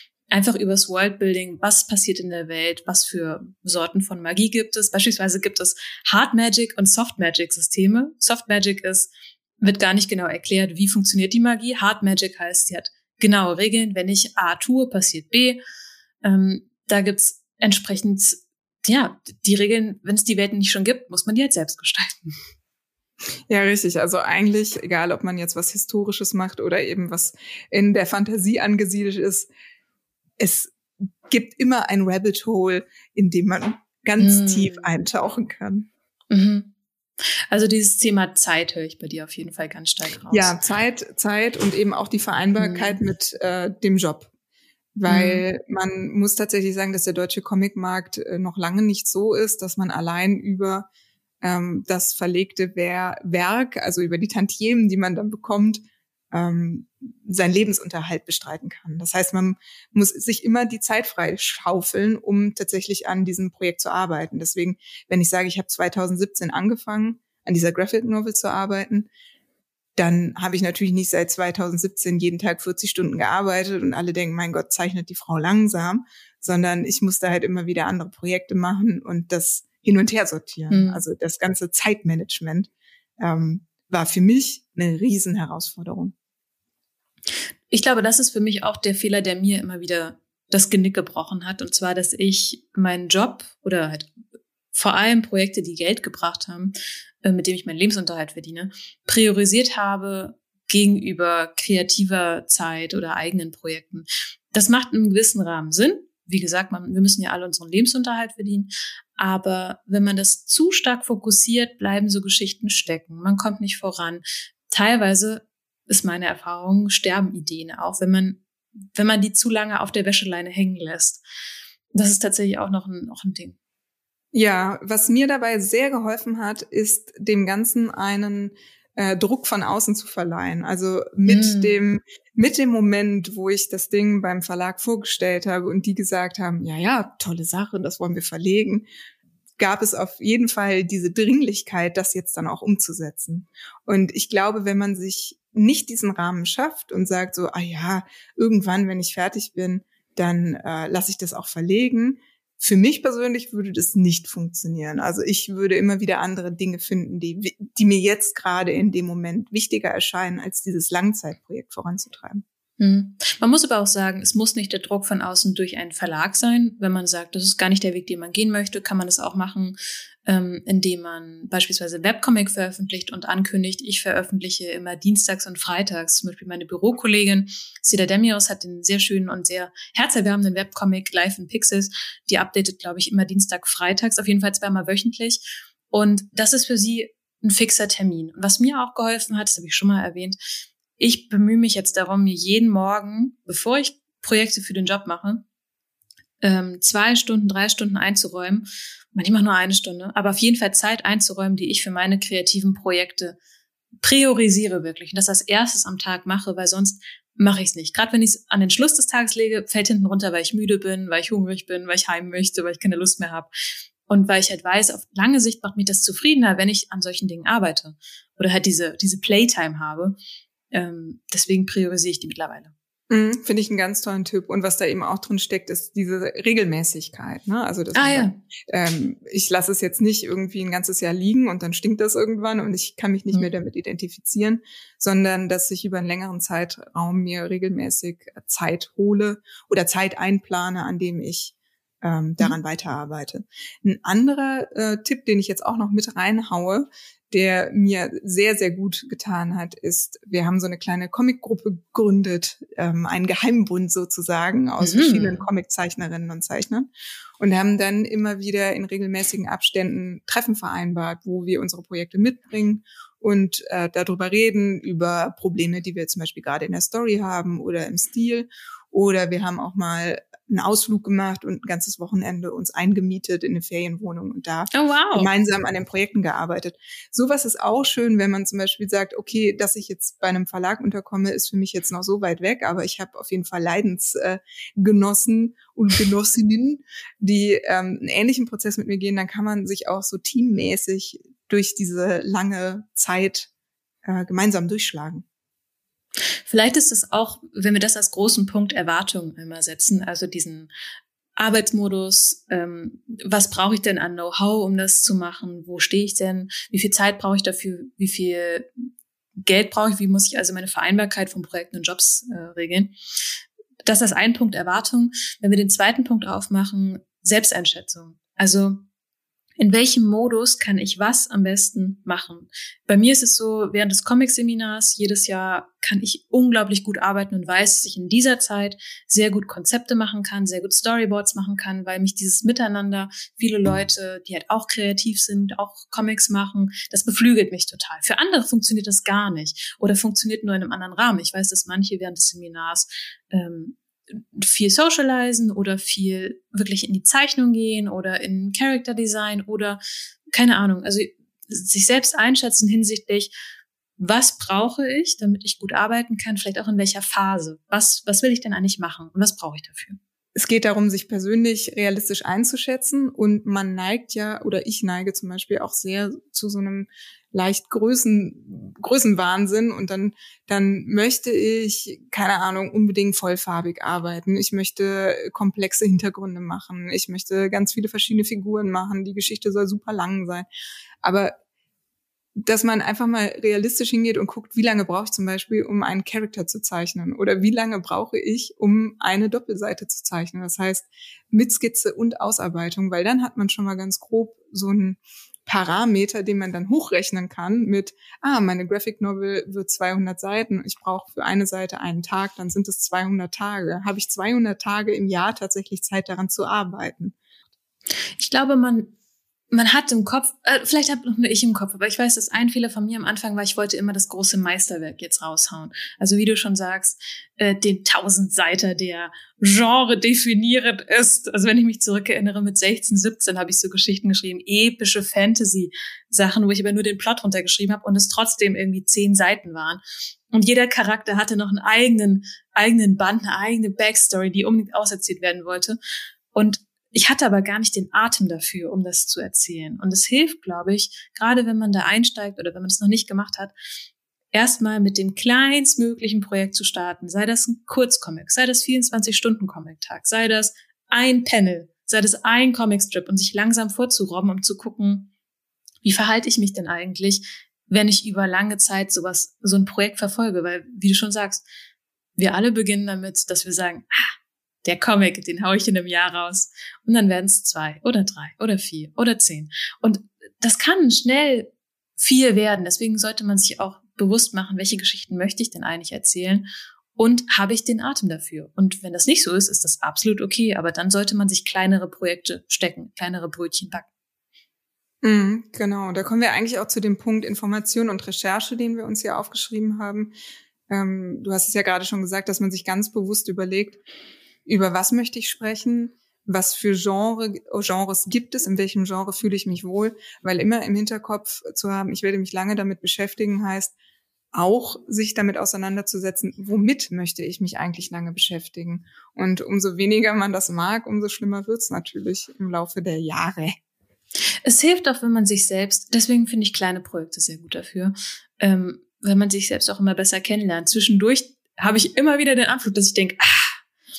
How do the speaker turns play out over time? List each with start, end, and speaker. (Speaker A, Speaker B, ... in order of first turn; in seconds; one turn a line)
Speaker A: 0.3-15.6
Speaker A: 16.2-22.4
Speaker B: 23.5-29.5
Speaker B: 30.4-30.7
Speaker B: 31.3-35.9
Speaker A: 34.2-34.9
Speaker A: 36.3-36.7
Speaker A: 37.5-40.6
Speaker B: 40.3-44.3
Speaker A: 42.6-43.0
Speaker B: 45.0-50.9
Speaker A: 45.1-45.5
Speaker B: 51.4-69.1
Speaker B: 70.0-86.1
Speaker A: 80.7-81.0
Speaker A: 87.7-94.1
Speaker A: 94.7-121.2
Speaker A: 121.9-123.6
Speaker B: 124.3-138.9
Speaker A: 131.2-131.8
Speaker B: 139.6-162.4
Speaker A: 162.8-190.4
Speaker A: 191.0-195.4
Speaker A: 196.4-203.4
Speaker A: 204.0-213.5
Speaker A: 214.1-220.2
Speaker A: 220.7-222.7
Speaker B: 223.1-293.5
Speaker A: 227.9-228.4
Speaker A: 254.8-255.4
Speaker A: 274.7-275.3
Speaker B: 294.0-295.2
Speaker A: 296.4-300.7
Speaker A: 301.4-308.7
Speaker A: 309.4-312.9
Speaker A: 313.8-318.8
Speaker A: 319.6-353.3
Speaker A: 354.0-360.0
Speaker B: 360.4-380.5
Speaker B: 381.0-381.3
Speaker B: 382.4-407.1
Speaker A: 408.2-408.9
Speaker A: 409.5-435.8
Speaker A: 436.3-443.5
Speaker A: 444.3-455.1
Speaker A: 455.8-461.4
Speaker A: 462.1-464.1
Speaker A: 464.6-483.9
Speaker B: 485.0-490.1
Speaker B: 490.7-493.8
Speaker B: 494.4-503.7
Speaker B: 504.3-513.5
Speaker A: 514.4-523.5